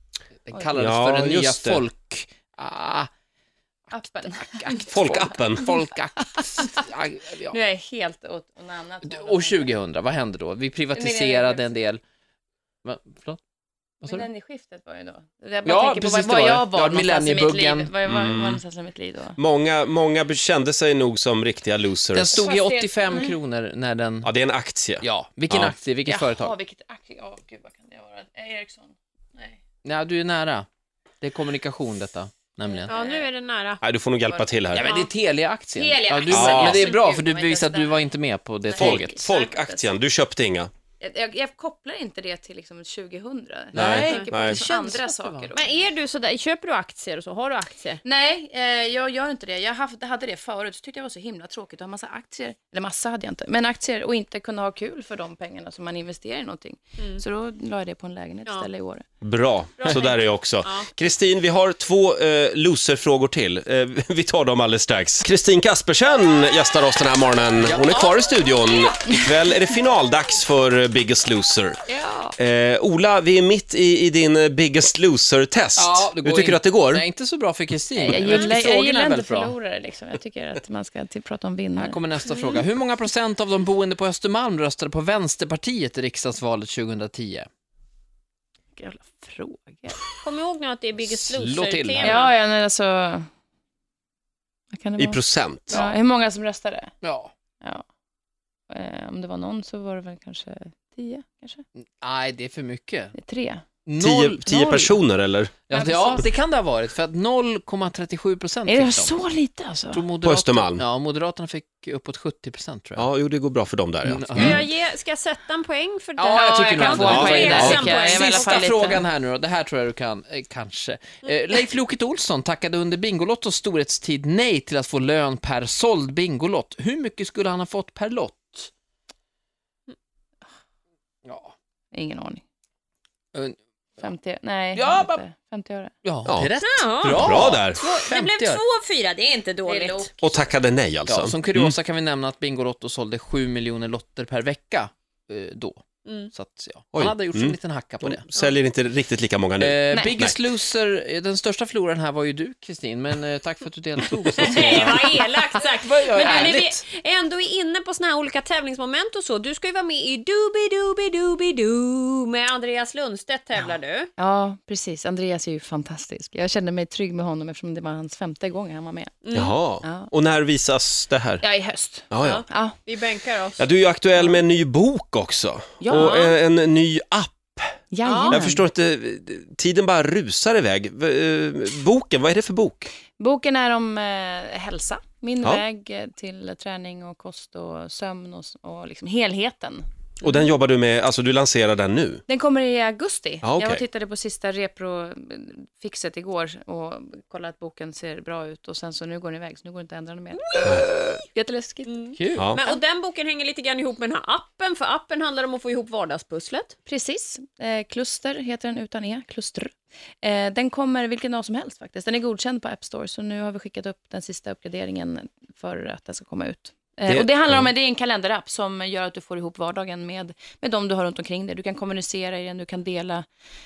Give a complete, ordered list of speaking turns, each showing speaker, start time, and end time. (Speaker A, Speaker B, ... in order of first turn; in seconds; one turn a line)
Speaker A: 0.5-3.1
Speaker B: 0.8-1.8
Speaker A: 3.9-7.5
Speaker C: 3.9-5.3
Speaker B: 4.9-5.7
Speaker C: 6.4-6.7
Speaker C: 7.5-9.7
Speaker A: 9.0-12.0
Speaker C: 10.9-11.7
Speaker A: 12.8-13.4
Speaker A: 14.0-14.3
Speaker C: 14.0-19.4
Speaker A: 15.6-17.9
Speaker B: 18.1-18.6
Speaker B: 19.4-22.5
Speaker A: 22.1-24.3
Speaker C: 22.2-23.4
Speaker B: 24.2-25.8
Speaker A: 25.0-26.5
Speaker C: 26.1-29.6
Speaker A: 29.8-30.7
Speaker A: 31.2-32.9
Speaker C: 32.6-33.3
Speaker D: 32.9-33.8
Speaker B: 33.8-34.9
Speaker C: 34.3-35.1
Speaker A: 34.7-39.2
Speaker C: 35.7-38.1
Speaker B: 36.3-36.9
Speaker C: 38.6-39.9
Speaker B: 38.8-40.7
Speaker C: 41.0-45.7
Speaker A: 43.7-45.5
Speaker B: 43.8-44.6
Speaker D: 45.5-48.0
Speaker C: 48.0-59.0
Speaker D: 57.0-57.2
Speaker B: 59.2-71.8
Speaker D: 59.8-60.9
Speaker A: 67.6-68.2
Speaker C: 71.9-72.3
Speaker B: 72.4-77.0
Speaker A: 75.8-79.5
Speaker C: 78.0-82.4
Speaker A: 81.8-87.5
Speaker C: 88.8-90.0
Speaker D: 90.2-92.3
Speaker A: 91.0-92.2
Speaker C: 92.0-93.3
Speaker C: 94.7-95.2
Speaker B: 95.0-95.8
Speaker C: 95.7-96.9
Speaker A: 97.0-97.3
Speaker C: 98.7-101.6
Speaker A: 101.8-103.1
Speaker C: 103.2-103.7
Speaker A: 103.8-104.5
Speaker B: 104.0-105.5
Speaker C: 104.4-105.0
Speaker A: 105.7-109.1
Speaker C: 105.7-106.3
Speaker C: 108.7-110.1
Speaker A: 109.9-113.1
Speaker B: 110.2-110.8
Speaker B: 113.0-114.6
Speaker A: 114.0-114.6
Speaker D: 114.3-119.0
Speaker A: 116.2-128.7
Speaker C: 116.3-119.0
Speaker B: 117.1-117.8
Speaker A: 131.2-131.5
Speaker C: 131.9-132.4
Speaker C: 134.0-135.9
Speaker A: 134.7-135.2
Speaker A: 136.0-138.6
Speaker B: 136.2-136.5
Speaker D: 136.6-140.1
Speaker B: 137.0-137.8
Speaker C: 139.7-140.5
Speaker B: 140.2-141.7
Speaker A: 141.1-148.2
Speaker D: 146.0-146.3
Speaker B: 146.9-150.4
Speaker A: 149.6-156.8
Speaker C: 149.9-150.2
Speaker D: 154.4-164.1
Speaker C: 156.2-156.6
Speaker C: 164.2-169.2
Speaker D: 169.2-169.6
Speaker B: 169.3-171.4
Speaker C: 169.8-170.1
Speaker C: 171.4-172.8
Speaker B: 172.1-172.4
Speaker D: 172.2-173.7
Speaker B: 173.6-182.9
Speaker C: 175.8-176.3
Speaker D: 175.9-176.2
Speaker C: 177.9-178.6
Speaker D: 178.0-178.4
Speaker C: 183.2-189.8
Speaker B: 190.2-192.2
Speaker C: 192.3-202.8
Speaker B: 193.4-193.8
Speaker D: 201.9-206.7
Speaker A: 202.2-202.5
Speaker C: 206.8-223.2
Speaker B: 217.1-217.7